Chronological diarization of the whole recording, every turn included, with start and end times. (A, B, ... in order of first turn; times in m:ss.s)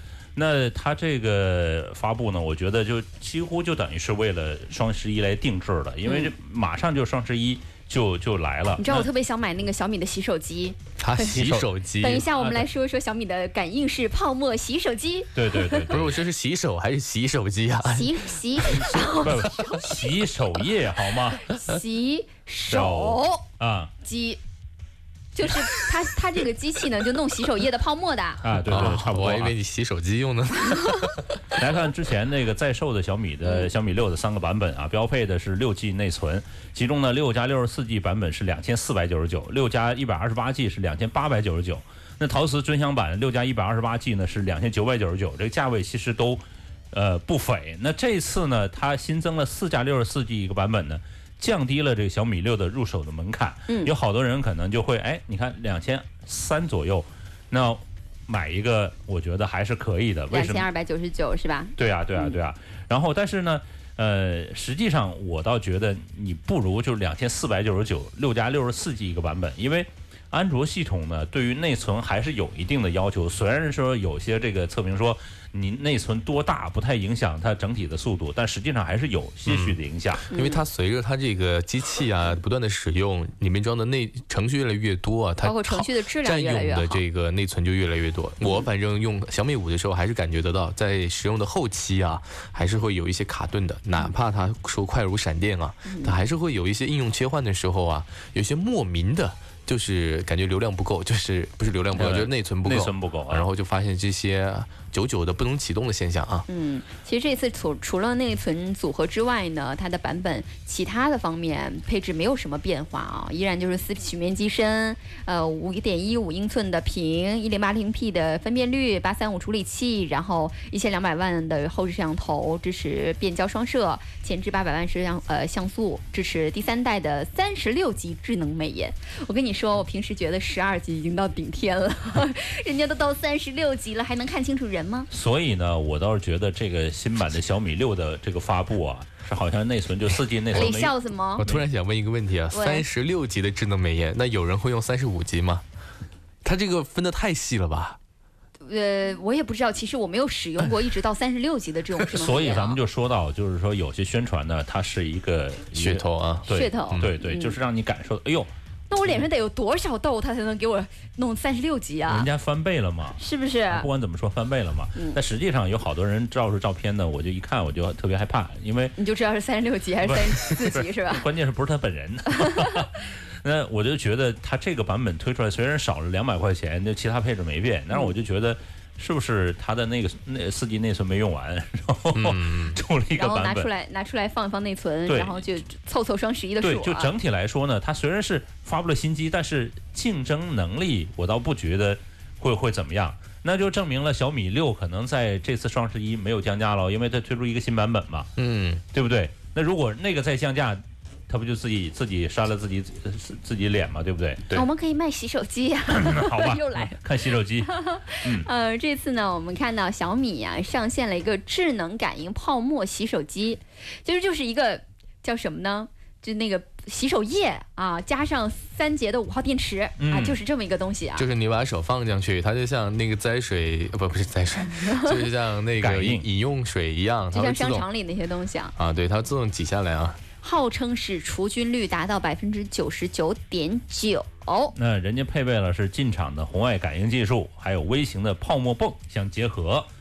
0:00.3-0:09.1 A
0:06.0-0:06.3 B
0:08.8-0:11.4 B
0:11.0-0:12.2 C
0:11.3-0:12.6 A
0:12.0-0:16.0 B
0:15.3-0:16.2 A
0:15.9-0:18.9 C
0:17.8-0:19.9 B
0:18.7-0:21.5 A
0:21.4-0:23.4 B
0:22.7-0:23.9 A
0:24.0-0:24.4 B
0:25.3-0:28.4 B
0:28.4-0:29.5 A
0:28.7-0:31.6 C
0:31.5-1:00.7 A
1:00.3-1:02.4 B
1:01.8-1:20.2 A
1:19.4-1:19.7 C
1:20.3-1:46.5 C
1:20.3-1:20.6 B
1:25.4-1:27.0 B
1:35.8-1:36.2 B
1:41.9-1:43.5 A
1:46.5-2:15.1 B
2:15.1-2:21.6 A
2:20.5-2:21.4 B
2:21.4-2:25.6 C
2:22.5-2:22.8 B
2:26.4-2:28.0 C
2:28.6-2:32.8 B
2:32.1-2:38.5 A
2:35.7-2:37.1 C
2:36.5-2:37.6 B
2:38.9-2:42.3 B
2:42.1-2:48.9 A
2:43.2-2:43.9 B
2:49.0-2:51.2 B
2:50.0-3:03.7 A
2:52.4-2:52.9 B
3:02.1-3:02.8 C
3:03.2-3:07.1 B
3:05.1-3:05.4 A
3:06.6-3:18.3 A
3:18.4-3:18.8 C
3:18.9-3:24.5 A
3:24.5-3:27.0 B
3:25.9-3:27.7 A
3:27.6-3:41.2 B
3:40.0-3:40.4 A
3:41.2-3:47.8 C
3:44.8-3:45.1 B
3:45.8-3:46.2 A
3:47.3-3:48.7 B
3:48.8-3:50.2 C
3:50.4-3:54.7 B
3:54.8-3:59.9 A